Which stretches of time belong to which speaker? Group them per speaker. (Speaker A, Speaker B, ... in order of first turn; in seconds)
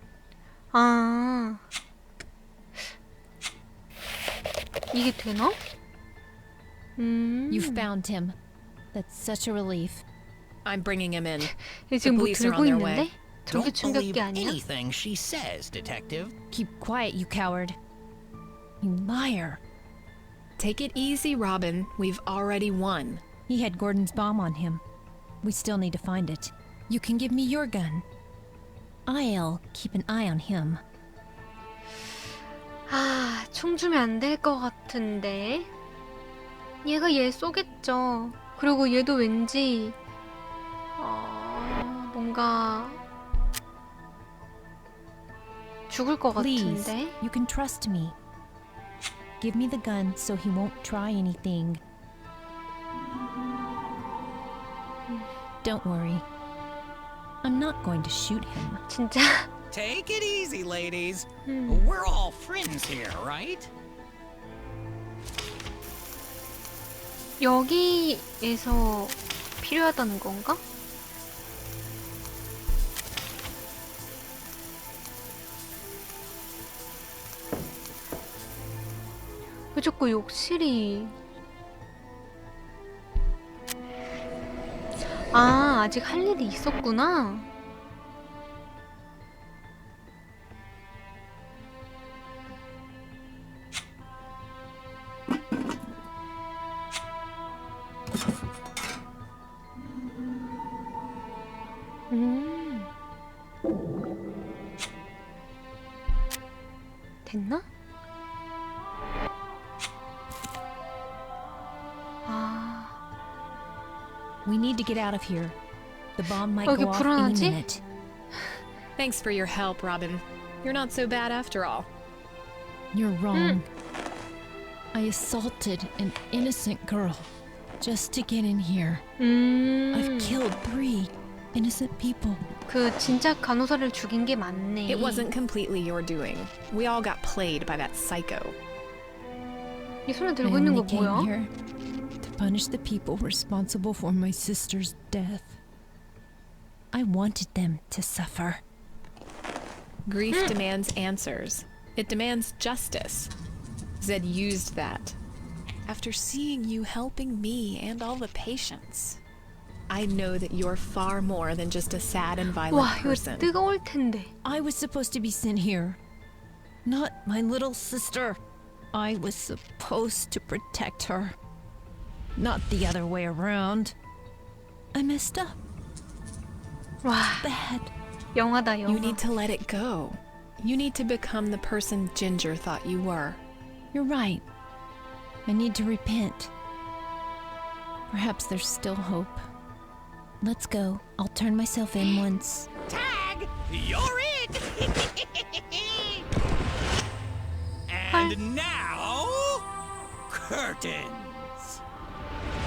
Speaker A: 0.7-1.6, 4.9-5.6, 7.0-7.9, 11.8-14.6, 32.9-35.7, 36.8-40.0, 41.0-43.0, 45.9-47.2, 58.9-59.5, 61.5-61.9, 67.4-70.6, 79.7-81.2, 85.2-87.5, 102.1-102.9, 107.2-107.7, 112.3-113.0, 116.7-117.6, 123.3-123.6, 129.2-130.4, 132.7-135.3, 140.1-141.3, 162.7-164.3, 177.0-177.5, 178.3-179.2, 198.1-198.4
Speaker B: 7.5-8.3, 8.9-10.0, 16.5-17.8, 18.8-19.6, 23.5-24.8, 25.4-28.1, 29.1-30.8, 46.4-48.1, 49.4-51.8, 55.6-56.2, 57.4-58.8, 114.5-115.6, 116.2-117.8, 122.9-123.7, 124.9-127.3, 127.8-129.0, 129.9-132.4, 140.4-141.5, 142.2-145.6, 146.9-148.6, 164.4-166.0, 166.8-168.4, 168.9-171.3, 172.4-173.9, 174.9-175.6, 177.2-177.9, 183.9-184.4, 185.5-186.5, 188.1-189.4, 190.4-192.7
Speaker C: 10.7-13.1, 20.6-23.2, 119.0-121.9, 134.9-138.6, 150.1-153.3, 154.0-155.2, 155.9-159.2, 159.9-163.5, 178.8-183.4
Speaker D: 13.5-16.3, 59.7-63.7, 192.9-196.2, 197.9-199.6, 200.3-201.8